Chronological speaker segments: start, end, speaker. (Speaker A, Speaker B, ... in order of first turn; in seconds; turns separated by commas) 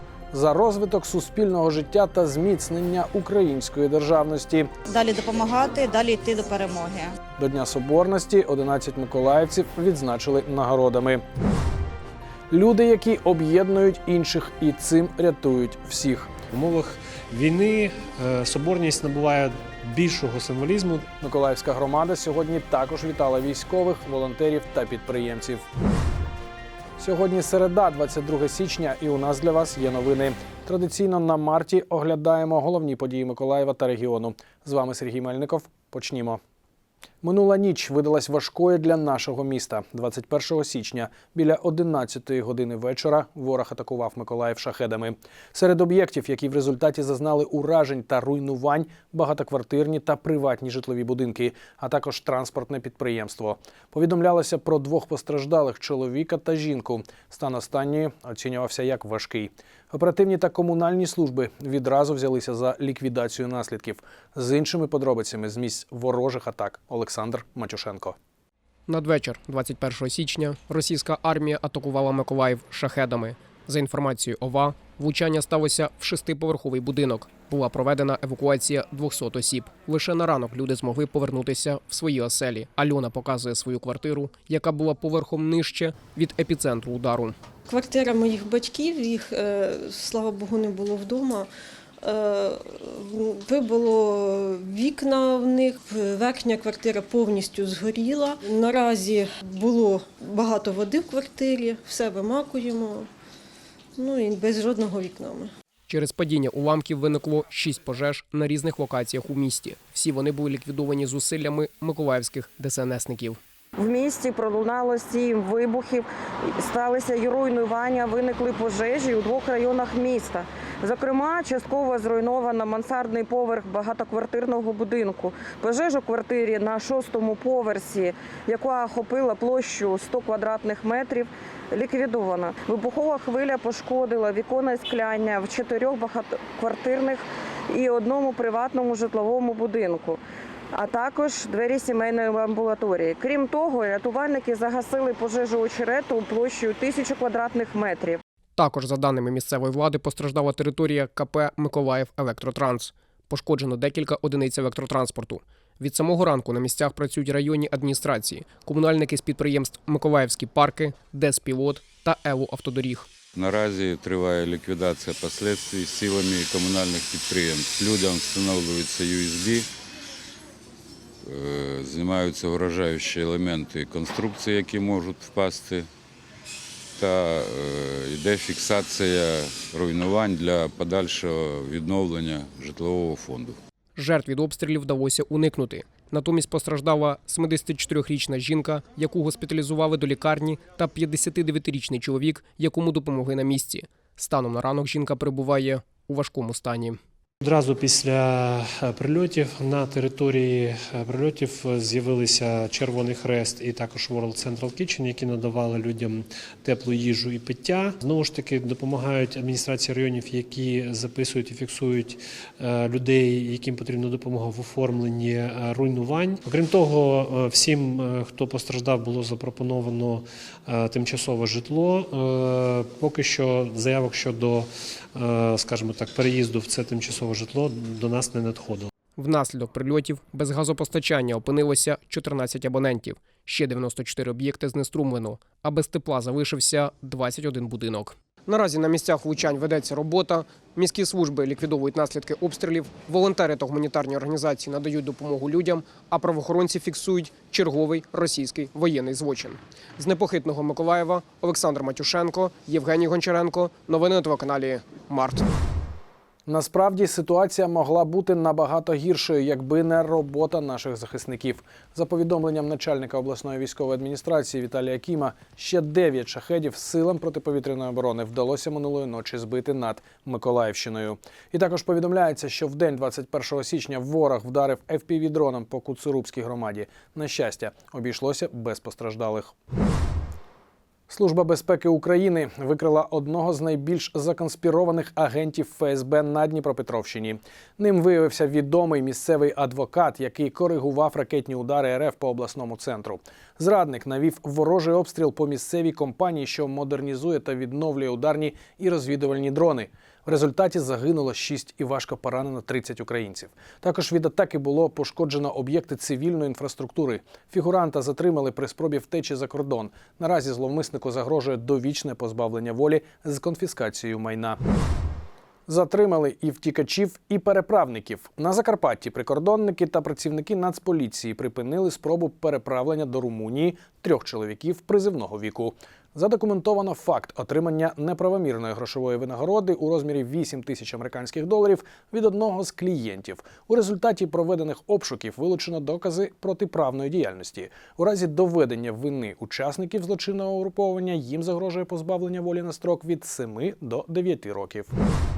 Speaker A: 0.3-4.7, Speaker B: 5.0-7.0, Speaker A: 7.4-11.2, Speaker A: 12.5-16.3, Speaker C: 16.5-21.0, Speaker A: 21.2-25.6, Speaker A: 27.0-36.4, Speaker A: 37.2-68.2, Speaker D: 68.9-87.4, Speaker E: 87.7-91.5, Speaker E: 92.0-103.1, Speaker E: 104.0-105.5, Speaker D: 105.9-113.4, Speaker F: 113.8-116.1, Speaker F: 116.6-140.2, Speaker F: 140.7-148.2, Speaker D: 148.6-163.1, Speaker G: 163.3-169.7, Speaker G: 171.2-175.9, Speaker G: 177.0-183.6, Speaker D: 183.9-197.0, Speaker C: 197.4-228.9, Speaker D: 229.2-255.4, Speaker A: 256.4-279.5, Speaker A: 281.1-314.6, Speaker A: 315.7-344.9